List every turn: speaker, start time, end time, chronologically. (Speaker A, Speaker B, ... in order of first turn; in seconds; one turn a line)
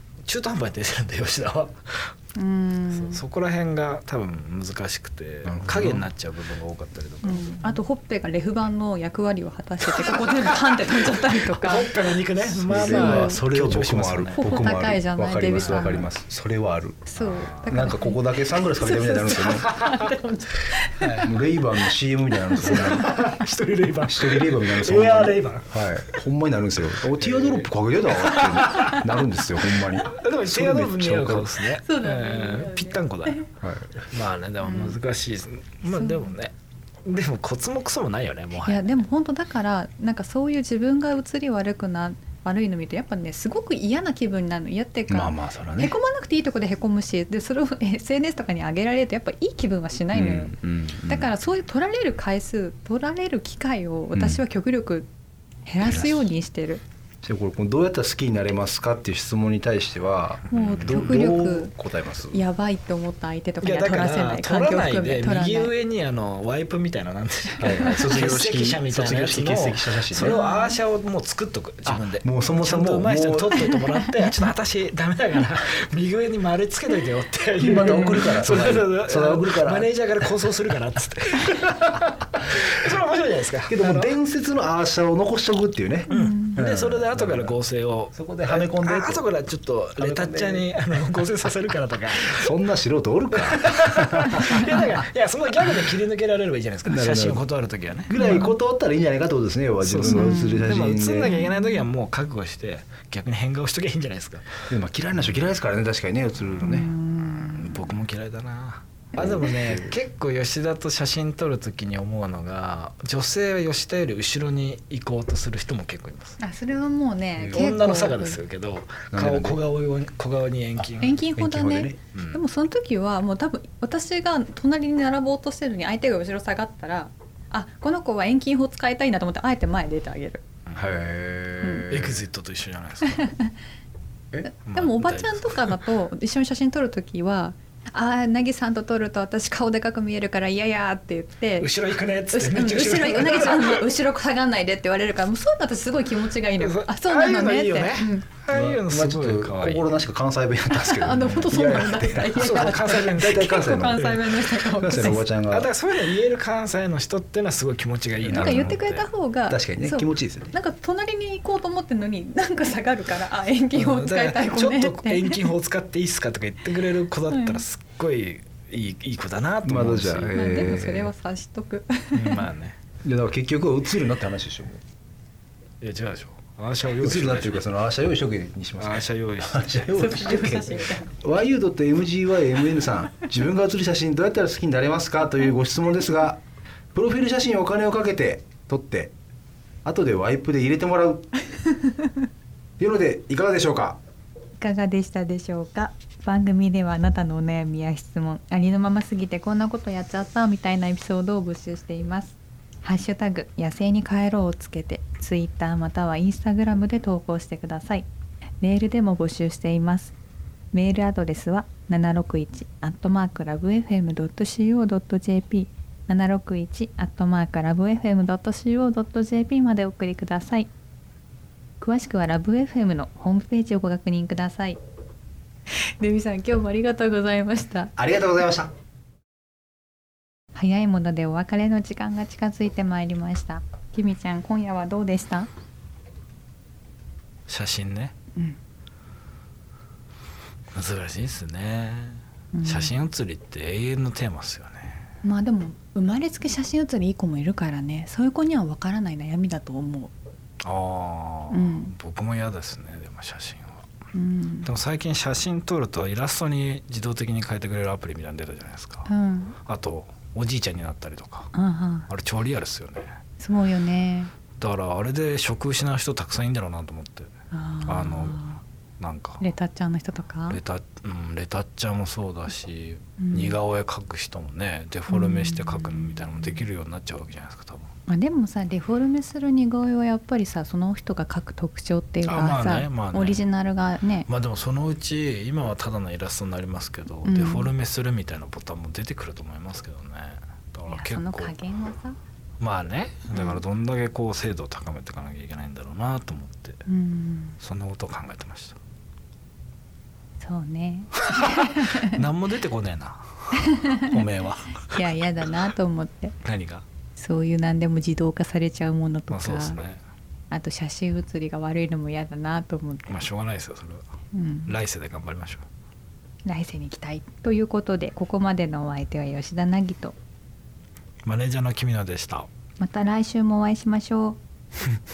Speaker A: 0.2-2.1
Speaker B: 2.4-3.2
Speaker A: 2.9-7.8
Speaker C: 5.5-6.1
Speaker B: 7.2-11.9
Speaker A: 10.1-14.8
Speaker C: 12.6-17.1
Speaker B: 12.7-13.4
Speaker B: 14.4-16.1
Speaker A: 15.6-16.1
Speaker B: 17.1-21.2
Speaker A: 17.2-17.8
Speaker C: 17.6-19.7
Speaker A: 19.6-20.1
Speaker A: 20.9-21.4
Speaker C: 21.2-23.2
Speaker A: 22.6-26.2
Speaker B: 22.6-23.0
Speaker C: 24.0-31.5
Speaker A: 26.8-33.5
Speaker B: 31.8-33.5
Speaker C: 33.6-34.0
Speaker A: 34.1-36.5
Speaker B: 34.6-35.0
Speaker B: 35.9-36.4
Speaker A: 37.0-39.0
Speaker B: 38.6-55.1
Speaker C: 45.1-46.0
Speaker C: 50.1-51.3
Speaker C: 54.1-54.4
Speaker B: 55.6-56.8
Speaker C: 57.2-62.4
Speaker B: 60.5-61.7
Speaker A: 60.5-61.1
Speaker B: 62.3-65.7
Speaker A: 63.6-84.1
Speaker C: 67.6-70.4
Speaker B: 67.7-68.1
Speaker B: 70.2-70.8
Speaker C: 71.9-73.7
Speaker C: 77.6-79.9
Speaker B: 77.7-78.3
Speaker C: 83.7-87.5
Speaker B: 86.1-86.6
Speaker A: 86.1-92.5
Speaker C: 88.1-89.2
Speaker C: 90.0-90.7
Speaker C: 92.3-95.0
Speaker A: 93.3-98.1
Speaker C: 96.8-97.4
Speaker C: 98.1-101.3
Speaker B: 98.2-98.5
Speaker A: 99.8-104.6
Speaker B: 100.1-101.9
Speaker C: 104.7-106.9
Speaker B: 106.6-108.0
Speaker A: 107.2-116.4
Speaker C: 109.2-110.0
Speaker B: 116.4-118.4
Speaker C: 117.4-117.7
Speaker A: 117.4-121.2
Speaker C: 119.1-119.6
Speaker C: 120.8-122.0
Speaker B: 121.0-130.4
Speaker A: 122.1-122.4
Speaker A: 130.7-131.0
Speaker C: 130.8-132.2
Speaker B: 131.6-131.9
Speaker A: 131.9-133.3
Speaker B: 133.1-133.5
Speaker B: 134.4-141.7
Speaker A: 134.7-135.8
Speaker A: 141.6-143.9
Speaker B: 142.3-148.3
Speaker A: 146.6-149.9
Speaker C: 148.5-155.7
Speaker B: 150.7-155.3
Speaker A: 152.3-154.5
Speaker A: 155.4-159.1
Speaker C: 158.2-158.8
Speaker B: 158.3-165.5
Speaker C: 159.5-160.5
Speaker A: 163.7-170.3
Speaker B: 167.3-167.6
Speaker C: 169.6-171.1
Speaker B: 170.3-172.4
Speaker A: 172.1-172.8
Speaker C: 173.0-174.8
Speaker A: 175.8-177.6
Speaker C: 177.0-186.4
Speaker A: 178.8-179.9
Speaker B: 179.9-181.2
Speaker C: 186.9-189.1
Speaker C: 189.8-191.3
Speaker B: 191.8-192.1
Speaker C: 192.8-194.0
Speaker B: 194.6-208.1
Speaker B: 208.6-210.2
Speaker B: 210.7-220.7
Speaker B: 221.8-224.8
Speaker B: 225.7-227.9
Speaker C: 228.0-228.7
Speaker B: 230.6-235.5
Speaker A: 237.5-238.1
Speaker A: 240.7-245.0
Speaker B: 242.5-243.0
Speaker B: 245.2-250.1
Speaker A: 250.6-253.9
Speaker B: 251.5-251.9
Speaker B: 254.1-254.7
Speaker A: 254.7-259.1
Speaker B: 259.1-259.6
Speaker A: 259.6-261.5
Speaker B: 261.5-262.1
Speaker A: 262.1-263.1
Speaker B: 263.4-264.3
Speaker A: 264.6-267.3
Speaker B: 267.5-268.6
Speaker A: 267.9-268.5
Speaker A: 269.0-269.5
Speaker B: 269.4-270.6
Speaker A: 270.5-277.9
Speaker B: 273.2-273.6
Speaker B: 275.1-276.6
Speaker B: 278.1-284.3
Speaker A: 282.2-283.4
Speaker A: 284.3-291.6
Speaker B: 287.2-287.7
Speaker B: 290.9-292.2
Speaker A: 292.6-296.8
Speaker B: 293.3-293.6
Speaker B: 296.9-297.6
Speaker A: 297.6-298.8
Speaker B: 300.4-302.2
Speaker A: 301.2-305.5
Speaker B: 303.6-304.2
Speaker B: 304.9-306.3
Speaker A: 306.4-306.9
Speaker B: 307.2-309.8
Speaker A: 309.3-310.0
Speaker B: 310.5-313.3
Speaker A: 313.1-314.1
Speaker B: 314.3-314.7
Speaker A: 314.7-315.6
Speaker B: 316.4-320.1
Speaker A: 321.2-322.5
Speaker B: 322.8-324.4